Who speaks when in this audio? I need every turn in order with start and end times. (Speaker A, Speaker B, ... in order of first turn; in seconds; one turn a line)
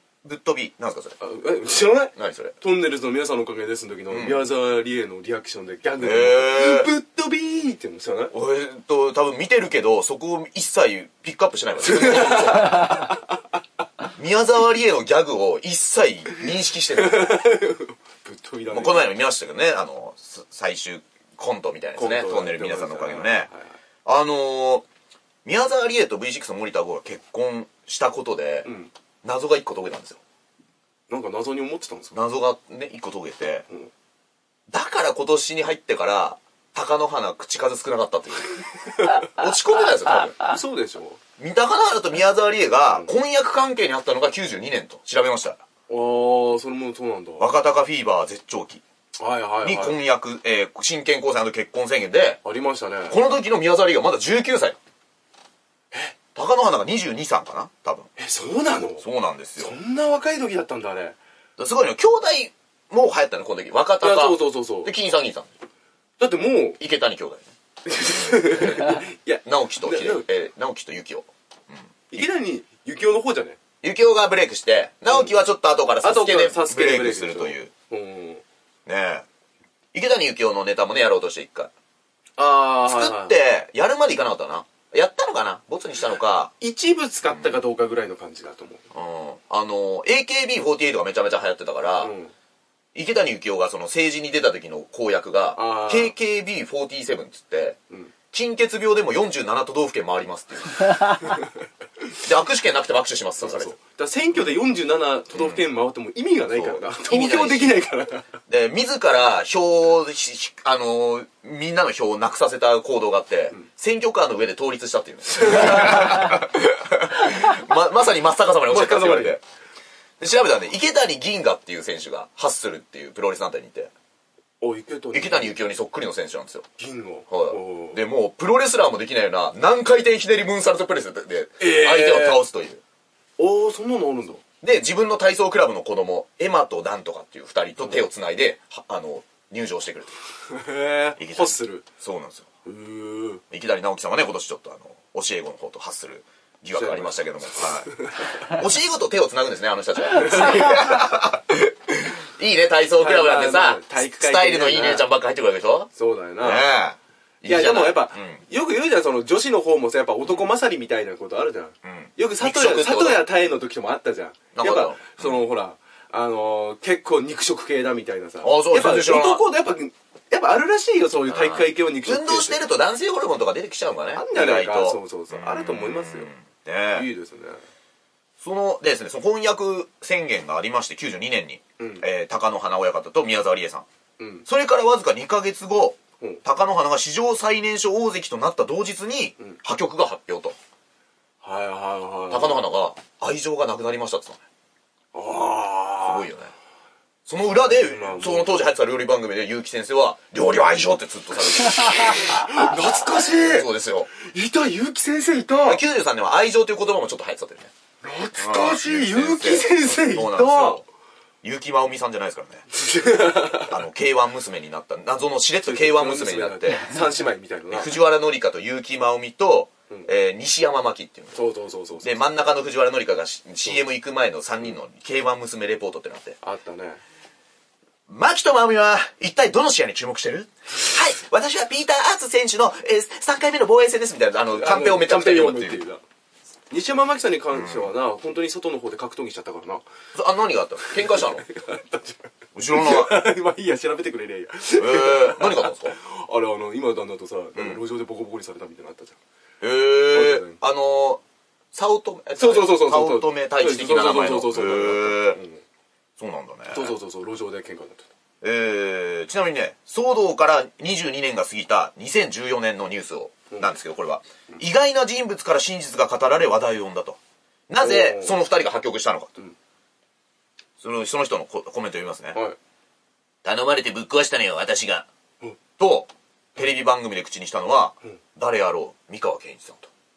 Speaker A: 0.2-1.2
Speaker B: 1.2-8.3
Speaker A: 2.1-2.5
Speaker A: 4.1-4.5
Speaker A: 6.0-6.9
Speaker A: 8.3-13.2
Speaker B: 11.8-13.2
Speaker A: 14.2-17.4
Speaker B: 16.9-19.2
Speaker A: 18.7-23.5
Speaker B: 22.0-23.7
Speaker A: 24.1-24.9
Speaker A: 25.4-28.7
Speaker B: 28.6-28.9
Speaker A: 29.2-30.2
Speaker B: 31.1-32.2
Speaker A: 32.1-33.7
Speaker A: 34.7-40.4
Speaker B: 40.4-41.2
Speaker A: 41.4-45.6
Speaker B: 42.9-43.1
Speaker B: 45.9-47.5
Speaker A: 47.4-48.8
Speaker B: 49.2-50.0
Speaker A: 49.6-52.4
Speaker B: 52.4-53.2
Speaker A: 53.1-54.8
Speaker A: 56.4-58.1
Speaker B: 58.2-59.1
Speaker A: 59.0-59.8
Speaker B: 59.6-61.2
Speaker A: 61.6-65.5
Speaker B: 64.0-64.9
Speaker B: 66.2-66.8
Speaker A: 66.8-67.5
Speaker B: 67.8-70.3
Speaker A: 68.0-72.2
Speaker B: 72.1-73.6
Speaker A: 73.8-77.7
Speaker B: 75.1-75.3
Speaker B: 76.0-78.4
Speaker A: 78.9-79.3
Speaker A: 79.9-81.7
Speaker B: 82.4-83.4
Speaker A: 82.8-86.5
Speaker B: 86.6-88.8
Speaker A: 87.2-87.6
Speaker A: 88.9-92.1
Speaker B: 92.0-92.3
Speaker A: 92.9-97.8
Speaker B: 95.6-96.2
Speaker A: 98.3-101.4
Speaker A: 102.2-103.8
Speaker B: 103.4-108.3
Speaker A: 105.3-105.7
Speaker A: 106.5-107.8
Speaker A: 108.5-119.4
Speaker B: 115.3-116.2
Speaker B: 118.7-119.4
Speaker A: 120.2-123.9
Speaker B: 124.6-125.6
Speaker A: 125.1-126.7
Speaker B: 126.8-128.0
Speaker A: 127.3-132.8
Speaker B: 131.6-132.4
Speaker B: 133.4-134.4
Speaker A: 134.6-140.1
Speaker B: 140.5-141.9
Speaker A: 141.2-142.5
Speaker B: 142.7-143.4
Speaker A: 143.5-158.4
Speaker B: 146.7-148.5
Speaker B: 153.0-155.1
Speaker B: 156.0-156.7
Speaker B: 157.5-172.6
Speaker A: 160.2-160.5
Speaker A: 161.8-163.3
Speaker A: 164.6-165.4
Speaker A: 168.4-169.4
Speaker A: 171.3-177.1
Speaker B: 174.1-176.3
Speaker B: 176.9-177.6
Speaker A: 178.4-183.9
Speaker B: 181.8-182.1
Speaker B: 184.2-184.5
Speaker A: 184.5-190.6
Speaker B: 191.4-192.7
Speaker A: 192.3-194.4
Speaker B: 195.1-196.3
Speaker A: 196.0-196.5
Speaker A: 197.3-204.1
Speaker B: 197.5-198.7
Speaker B: 201.6-205.8
Speaker A: 205.6-207.7
Speaker B: 208.0-210.8
Speaker A: 208.4-210.8
Speaker A: 211.4-212.7
Speaker B: 212.7-213.8
Speaker A: 213.6-216.9
Speaker B: 215.6-217.9
Speaker A: 217.7-221.4
Speaker B: 221.3-222.2
Speaker A: 222.0-226.4
Speaker B: 226.4-227.0
Speaker A: 228.1-235.8
Speaker B: 234.5-236.0
Speaker B: 236.7-239.8
Speaker A: 237.5-237.9
Speaker A: 240.2-241.5
Speaker B: 240.9-249.2
Speaker A: 242.6-243.3
Speaker A: 244.8-246.0
Speaker A: 247.6-247.8
Speaker A: 249.6-251.2
Speaker B: 250.1-250.6
Speaker A: 251.7-255.4
Speaker B: 252.4-255.6
Speaker A: 256.2-256.9
Speaker B: 256.7-258.1
Speaker A: 258.4-269.3
Speaker B: 263.5-263.8
Speaker B: 267.8-268.4
Speaker A: 270.8-272.4
Speaker A: 273.4-275.1
Speaker A: 275.8-279.9